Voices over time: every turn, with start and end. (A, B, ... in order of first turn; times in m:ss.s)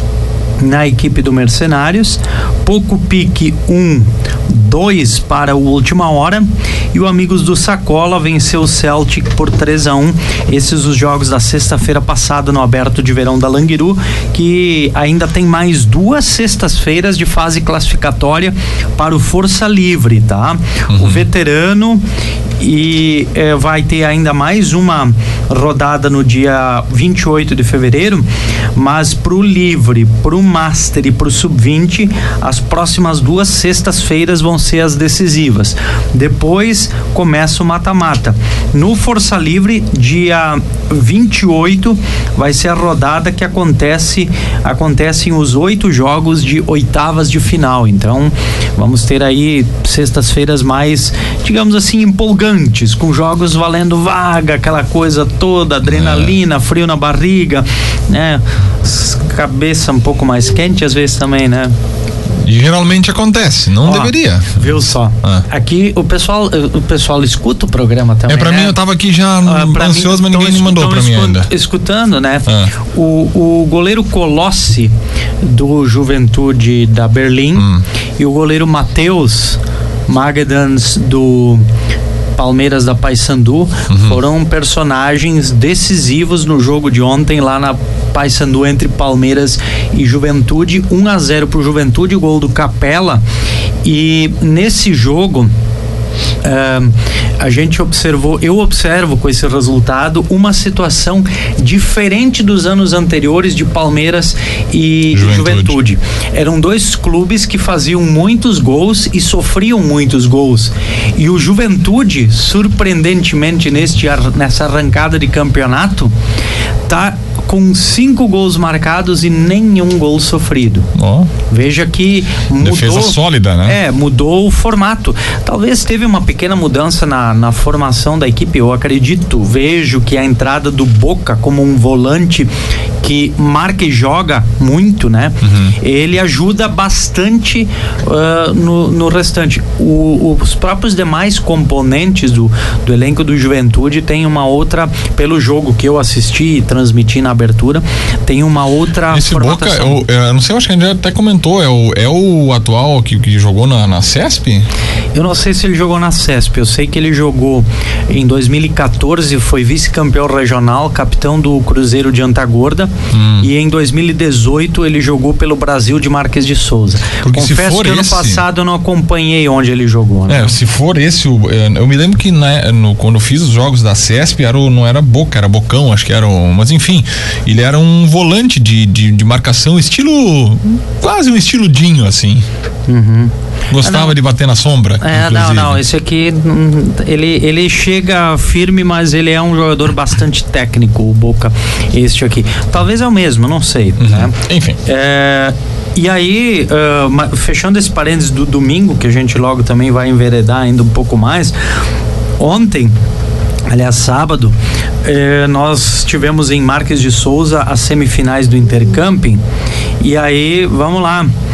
0:00.6-0:22.0 A
0:20.9-0:21.2 B
0:22.6-1:01.7 A
0:55.8-0:56.3 B
1:02.4-1:04.7 B
1:03.8-1:08.8 A
1:08.3-1:11.5 B
1:09.4-1:17.7 A
1:12.5-1:12.7 B
1:17.6-1:17.8 B
1:18.2-1:21.6 A
1:22.4-1:33.2 A
1:23.9-1:24.2 B
1:33.8-1:35.5 A
1:36.4-1:56.1 A
1:45.1-1:45.8 B
1:56.9-2:00.9 A
2:00.9-2:01.3 B
2:01.5-2:30.0 A
2:02.6-2:03.8 B
2:15.4-2:15.8 B
2:29.1-2:34.7 B
2:35.1-2:50.5 A
2:43.1-2:43.5 B
2:47.2-2:48.4 B
2:50.3-3:02.4 B
3:02.9-3:04.2 A
3:03.7-3:05.8 B
3:05.0-3:14.3 A
3:14.0-3:14.8 B
3:14.8-3:21.5 A
3:22.4-3:22.9 A
3:23.7-3:29.4 A
3:30.0-3:31.3 A